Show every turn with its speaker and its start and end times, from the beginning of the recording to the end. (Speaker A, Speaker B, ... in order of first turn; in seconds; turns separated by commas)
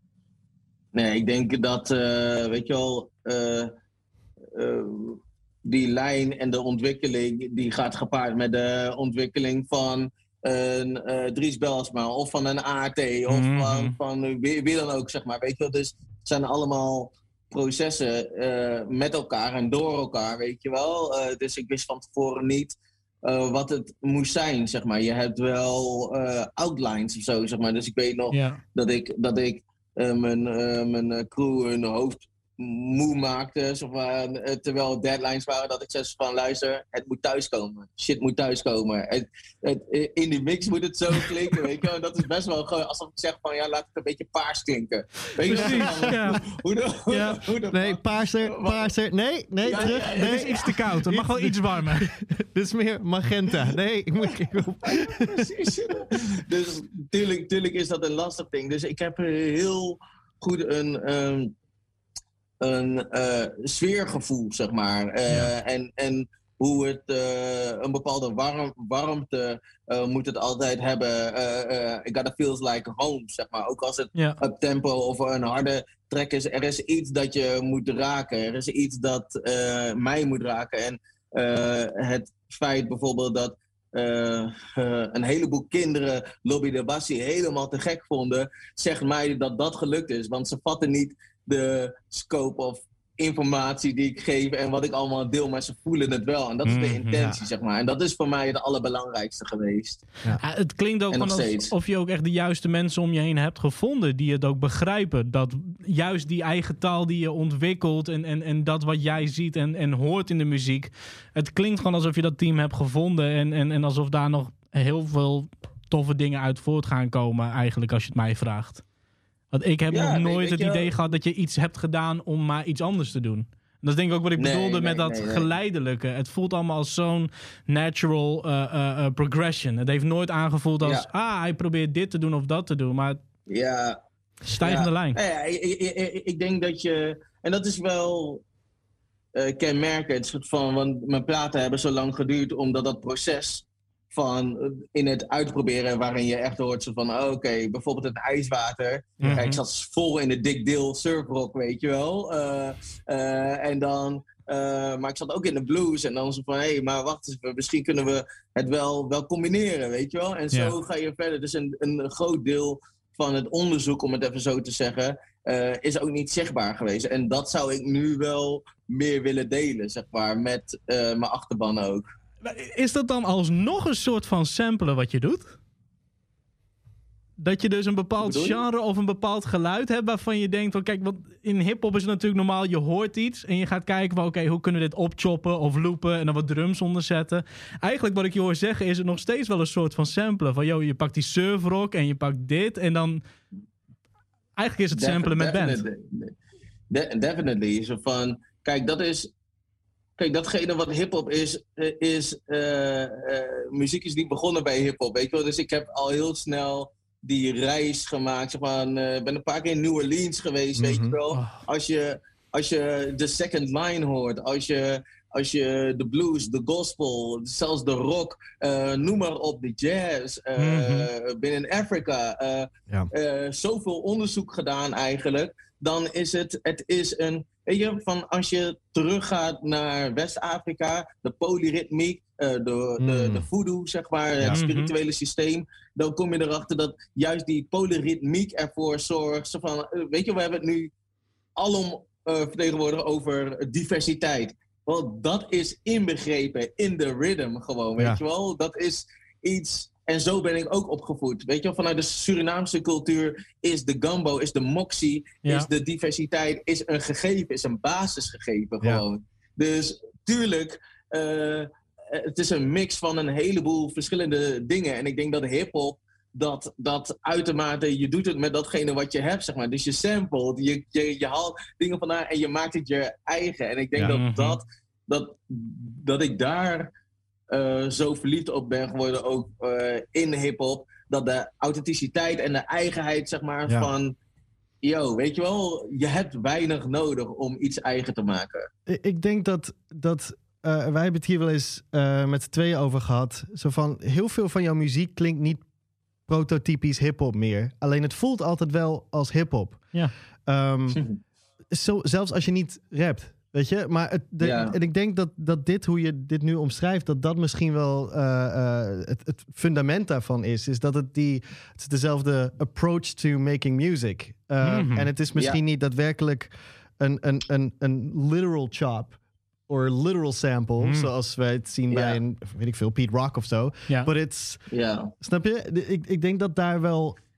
Speaker A: 0.9-3.7, Speaker A: 4.5-48.9, Speaker B: 13.3-13.9, Speaker B: 28.3-28.6, Speaker B: 45.5-46.4, Speaker C: 45.6-45.8, Speaker B: 47.1-47.4, Speaker C: 47.7-55.5, Speaker A: 49.6-50.7, Speaker B: 49.8-52.1, Speaker A: 54.8-61.5, Speaker A: 62.6-100.0, Speaker B: 96.7-97.3, Speaker B: 100.4-118.8, Speaker A: 101.1-101.7, Speaker B: 119.5-133.2, Speaker A: 119.9-120.9, Speaker A: 124.4-125.5, Speaker A: 130.8-131.1, Speaker A: 133.5-134.0, Speaker B: 134.5-135.2, Speaker A: 134.6-138.4, Speaker A: 139.3-172.1, Speaker C: 149.2-149.4, Speaker B: 149.2-149.6, Speaker B: 172.4-175.6, Speaker B: 177.4-193.2, Speaker A: 178.2-178.6, Speaker B: 194.6-195.8, Speaker A: 194.9-196.3, Speaker A: 196.9-199.3, Speaker A: 200.2-240.9, Speaker C: 210.8-211.2, Speaker B: 211.3-211.6, Speaker B: 220.6-221.1, Speaker C: 233.0-233.4, Speaker B: 234.5-234.9, Speaker A: 241.6-276.9, Speaker B: 274.0-274.6, Speaker A: 277.5-284.2, Speaker A: 284.8-288.7, Speaker C: 288.9-295.6, Speaker C: 296.3-299.9, Speaker C: 300.5-301.0, Speaker A: 300.9-301.2, Speaker C: 301.7-319.2, Speaker A: 304.4-304.8, Speaker B: 314.6-315.1, Speaker C: 319.7-324.6, Speaker B: 320.8-321.1, Speaker A: 321.9-322.2, Speaker A: 324.7-325.1, Speaker C: 325.2-327.2